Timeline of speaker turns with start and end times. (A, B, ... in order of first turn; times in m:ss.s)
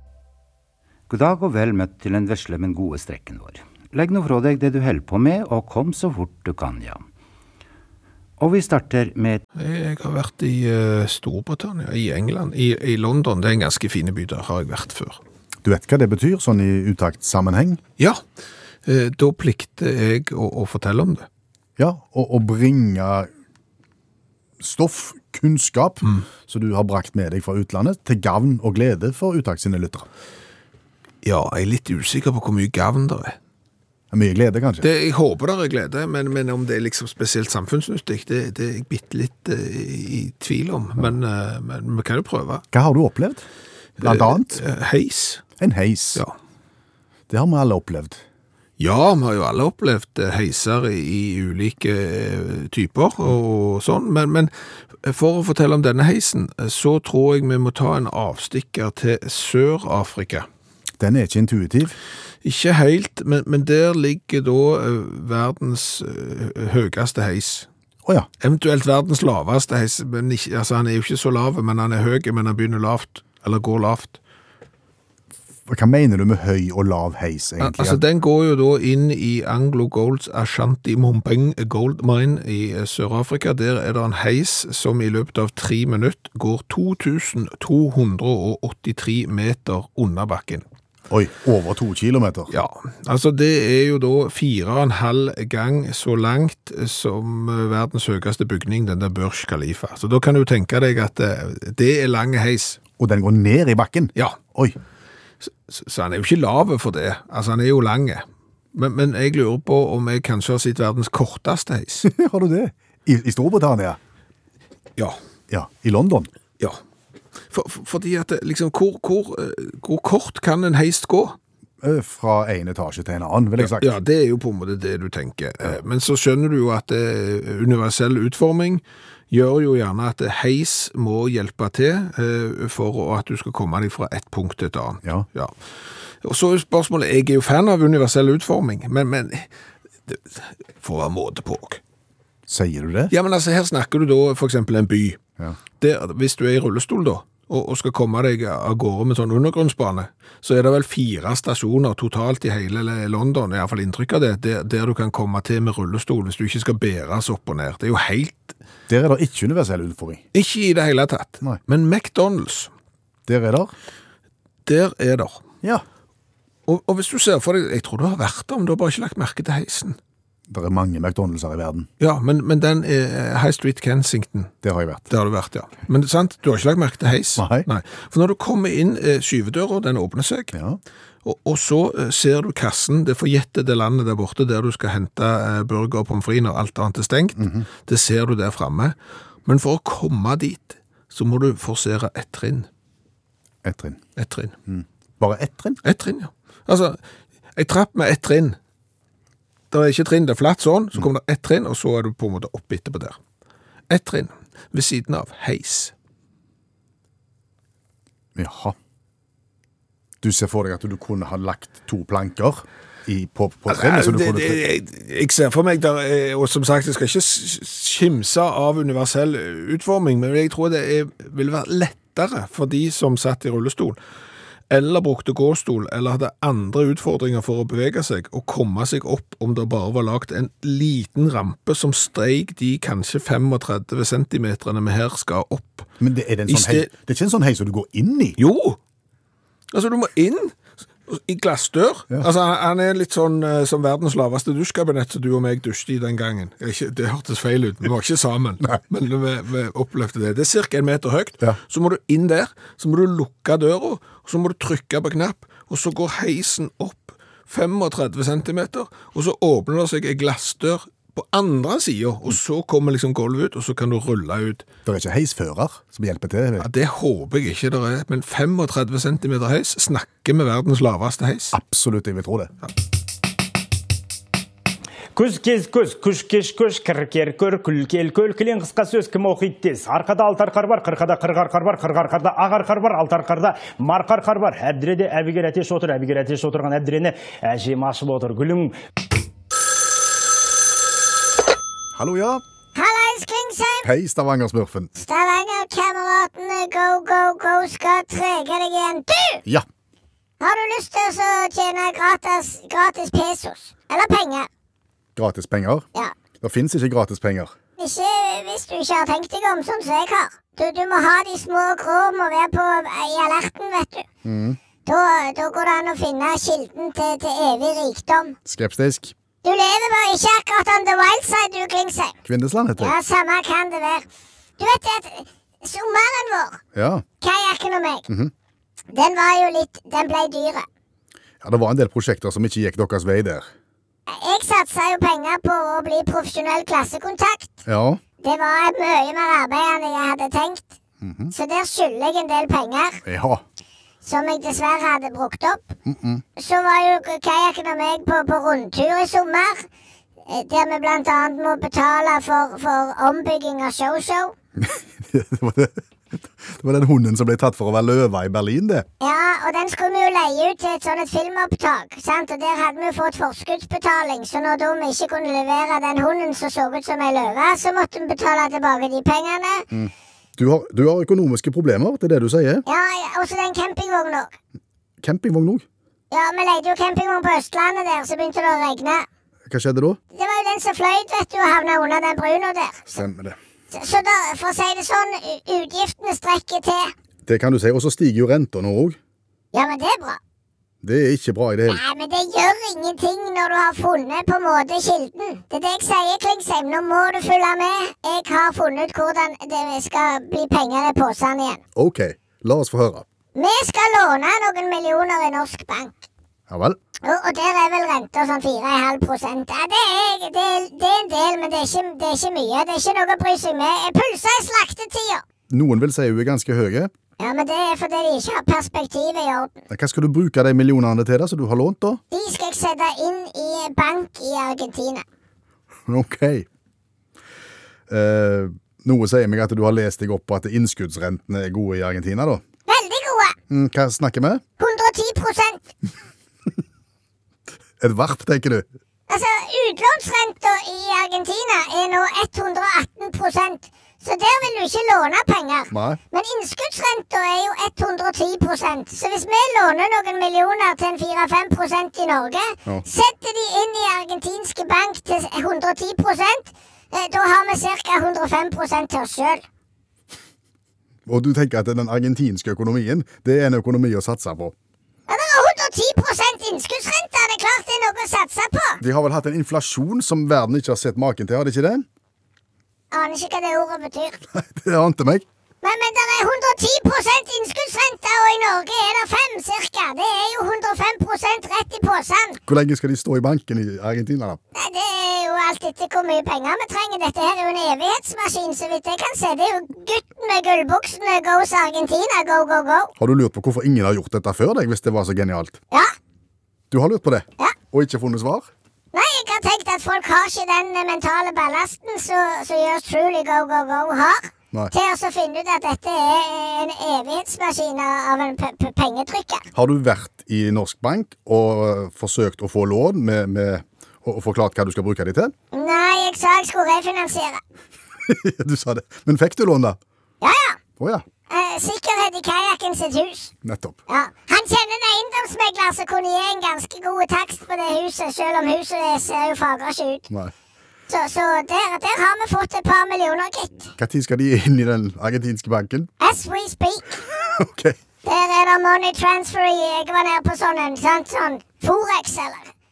0:01.1-0:07.0 A
0:08.4-0:09.4 A
0:09.6-0:15.2 B
0:15.6-0:17.8 C
0:18.8-0:21.3 B
0:21.8-0:23.3 C
0:24.6-0:30.1 C
0:31.2-0:33.4 B
0:34.1-0:34.9 C
0:34.8-0:42.6 B
0:42.7-0:43.4 C
0:44.0-0:44.6 C
0:44.0-0:45.4 B
0:45.6-0:46.2 C
0:47.3-0:48.2 C
0:48.8-1:00.5 B
1:01.0-1:02.0 C
1:02.4-1:07.7 B
1:08.4-1:14.2 B
1:15.7-1:18.0 C
1:17.6-1:30.6 B
1:31.1-1:32.5 C
1:32.5-1:42.8 B
1:43.0-1:44.8 C
1:45.4-1:52.1 B
1:52.0-1:54.0 C
1:55.5-1:56.3 C
1:57.5-2:01.4 B
2:01.8-2:03.9 C
2:03.6-2:19.5 B
2:20.1-2:21.8 B
2:22.5-2:23.1 C
2:23.1-2:25.2 B
2:25.8-2:38.6 B
2:38.9-2:40.2 C
2:40.3-2:42.7 B
2:43.3-2:43.7 C
2:44.6-2:45.4 B
2:46.7-2:50.0 B
2:50.5-2:51.9 C
2:52.0-2:54.5 B
2:54.6-2:55.1 C
2:55.1-3:00.5 B
2:57.4-2:57.7 C
3:00.5-3:00.8 C
3:01.2-3:08.9 B
3:07.4-3:07.7 C
3:09.4-3:12.7 B
3:13.6-3:14.0 C
3:14.2-3:14.5 B
3:14.7-3:15.8 C
3:15.8-3:17.0 B
3:17.6-3:18.6 B
3:19.7-3:23.2 B
3:23.9-3:25.9 B
3:28.4-3:28.8 C
3:30.2-3:34.6 C
3:33.7-3:44.0 B
3:44.7-3:55.9 B
3:56.0-3:58.4 C
3:56.5-3:56.9 B
3:58.4-3:58.8 B
3:59.7-4:24.6 B
4:24.8-4:26.7 C
4:26.6-4:31.6 B
4:31.5-4:32.5 C
4:35.2-4:48.7 D
4:51.9-4:52.4 C
4:52.7-4:53.9 E
4:53.8-4:54.9 C
4:55.0-4:59.4 E
5:00.4-5:04.5 E
5:05.2-5:05.8 C
5:06.4-5:07.5 C
5:07.8-5:14.0 E
5:14.2-5:14.6 C
5:14.8-5:18.3 E
5:18.4-5:19.1 C
5:19.4-5:22.2 E
5:22.2-5:23.0 C
5:22.8-5:24.1 E
5:24.6-5:26.6 E
5:26.7-5:27.0 C
5:27.2-5:28.1 E
5:28.1-5:28.3 C
5:28.9-5:30.7 E
5:31.4-5:33.5 C
5:34.1-5:37.6 E
5:37.6-5:38.0 C
5:38.2-5:40.7 E
5:41.0-5:41.3 C
5:41.3-5:43.0 E
5:43.0-5:43.4 C
5:44.0-5:45.7 E
5:45.8-5:46.2 C
5:46.4-5:49.6 E
5:50.3-5:54.3 E
5:54.6-5:58.8 C
5:59.0-6:09.7 E
6:09.7-6:12.6 C
6:12.6-6:14.3 E
6:15.0-6:15.6 C
6:16.1-6:19.0 E
6:19.5-6:20.0 C
6:20.1-6:23.0 E
6:22.9-6:23.4 C
6:23.7-6:26.9 E
6:27.2-6:29.0 C
6:29.5-6:30.2 E
6:30.8-6:31.8 C
6:31.7-6:41.6 E
6:41.7-6:43.0 C
6:43.4-6:46.1 E
6:46.5-6:46.8 C
6:47.0-6:55.2 E
6:55.5-6:56.9 C
6:57.2-6:59.5 E
6:59.7-7:02.0 C
7:02.1-7:05.0 E
7:05.9-7:06.5 C
7:07.9-7:12.4 C
7:12.7-7:13.4 E
7:13.5-7:14.4 C
7:14.6-7:15.6 E
7:17.8-7:18.6 C
7:19.1-7:39.4 E
7:25.7-7:26.0 C
7:41.1-7:44.5 C
7:45.1-7:48.8 E
7:48.8-7:51.9 C
7:52.9-7:54.2 E
7:54.3-7:55.2 C
7:55.6-8:02.4 E
8:02.5-8:04.4 C
8:04.5-8:12.9 E
8:13.0-8:15.6 C
8:16.7-8:18.5 C
8:18.9-8:29.4 E
8:29.5-8:35.3 C
8:35.5-8:37.4 E
8:38.0-8:39.8 C
8:40.2-8:40.6 E
8:40.8-8:41.0 C
8:41.3-8:43.3 E
8:43.4-8:43.8 C
8:43.9-8:50.1 E
8:50.9-8:53.7 E
8:53.8-8:55.9 C
8:56.0-8:56.8 E
8:57.1-8:57.8 C
8:58.0-9:02.5 E